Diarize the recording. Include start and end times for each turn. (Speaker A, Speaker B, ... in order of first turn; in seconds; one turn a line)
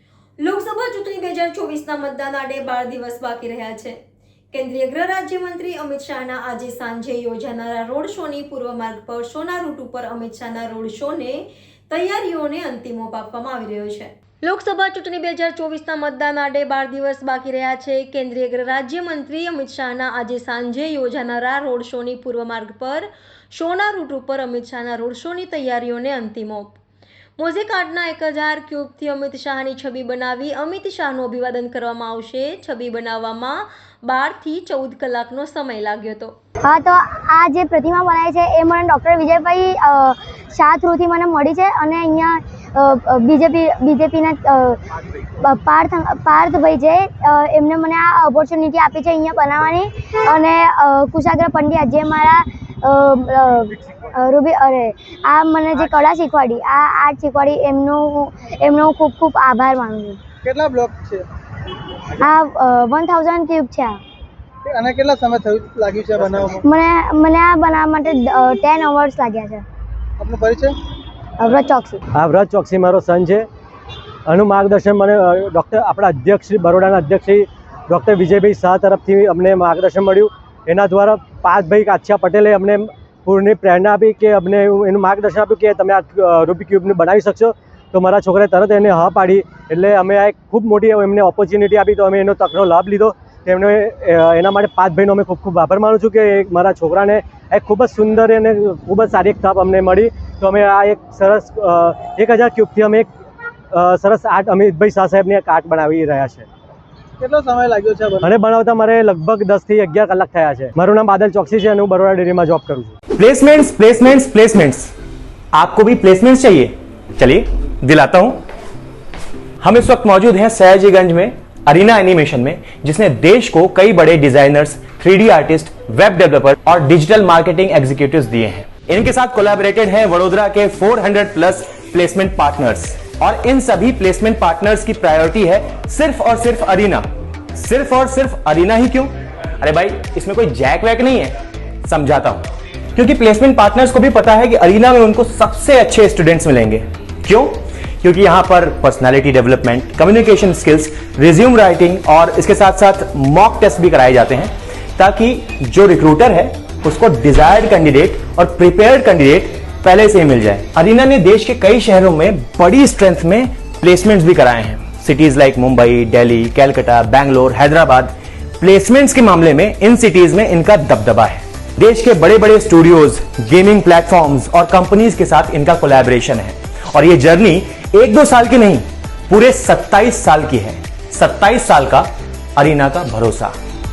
Speaker A: 0.4-4.0
Speaker A: 4.5-26.8
Speaker A: 27.4-36.3
Speaker B: 36.6-60.2
Speaker C: 60.4-61.3
Speaker B: 62.1-64.0
Speaker C: 64.6-66.6
Speaker B: 66.6-69.6
Speaker C: 70.2-70.8
Speaker B: 71.4-72.0
Speaker D: 72.1-73.5
Speaker D: 74.3-103.1
Speaker D: 103.7-106.5
Speaker C: 107.2-108.3
Speaker D: 108.2-112.9
Speaker E: 113.2-114.9
Speaker E: 115.5-118.4
Speaker E: 119.6-183.5